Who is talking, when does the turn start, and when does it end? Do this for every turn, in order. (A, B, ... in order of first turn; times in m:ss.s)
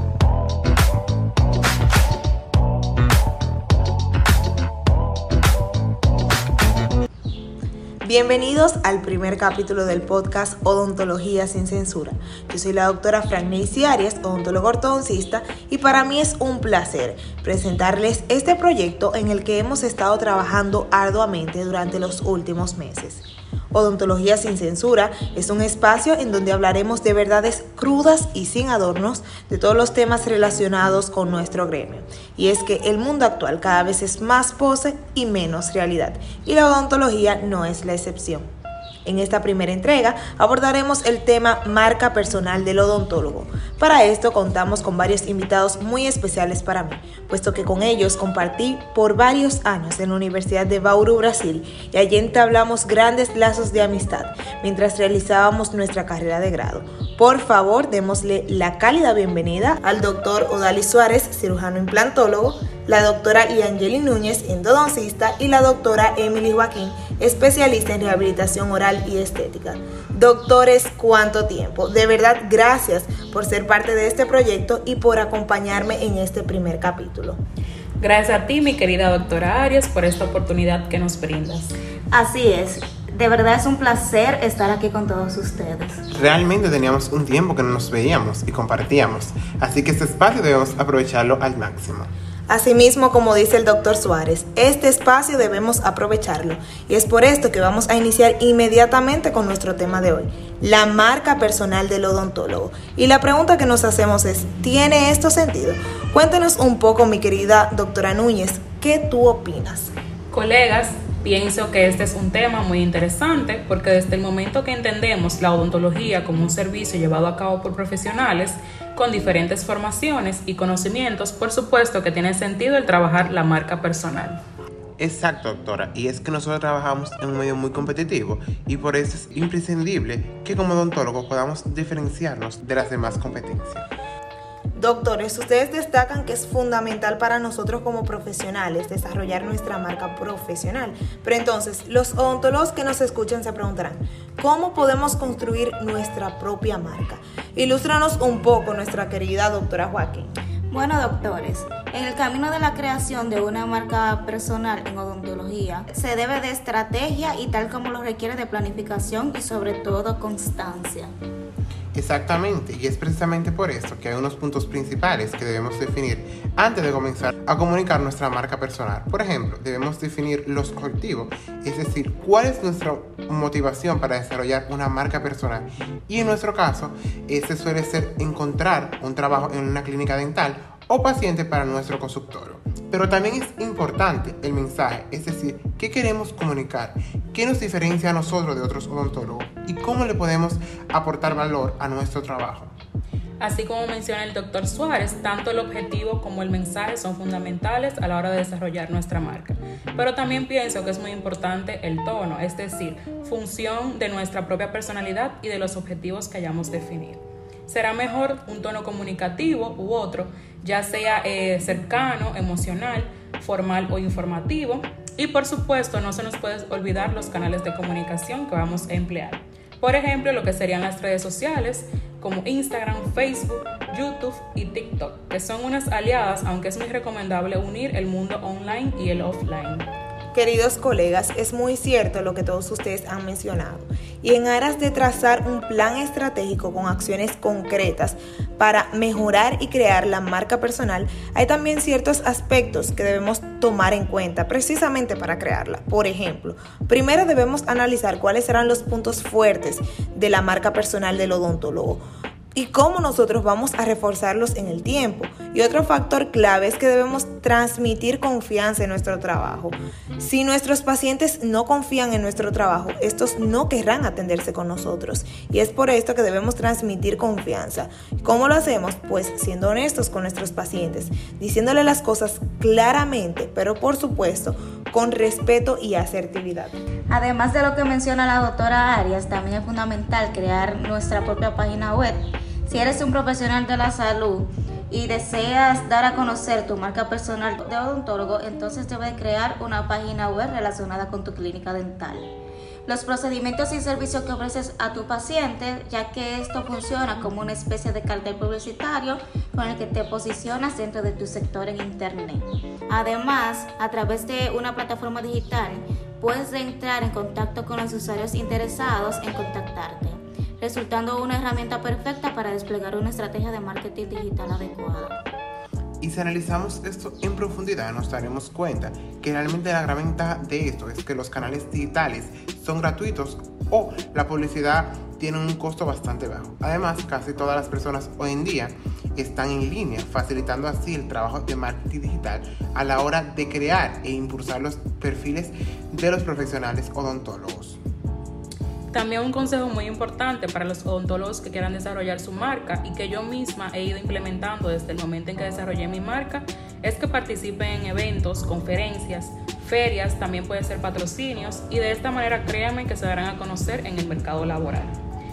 0:08.0-0:38.4 A
0:39.0-1:17.4 A
1:18.0-1:21.7 B
1:22.1-1:26.0 C
1:26.1-1:32.1 D
1:32.5-1:49.9 A
1:50.3-2:04.4 B
2:05.0-2:13.9 D
2:14.7-2:30.3 A
2:30.7-2:41.1 C
2:41.9-3:12.7 D
3:13.4-3:49.9 B
3:50.3-4:12.0 A
4:12.5-4:36.8 A
4:37.1-4:52.3 C
4:52.8-5:15.2 C
5:16.0-5:37.8 D
5:38.9-5:55.0 B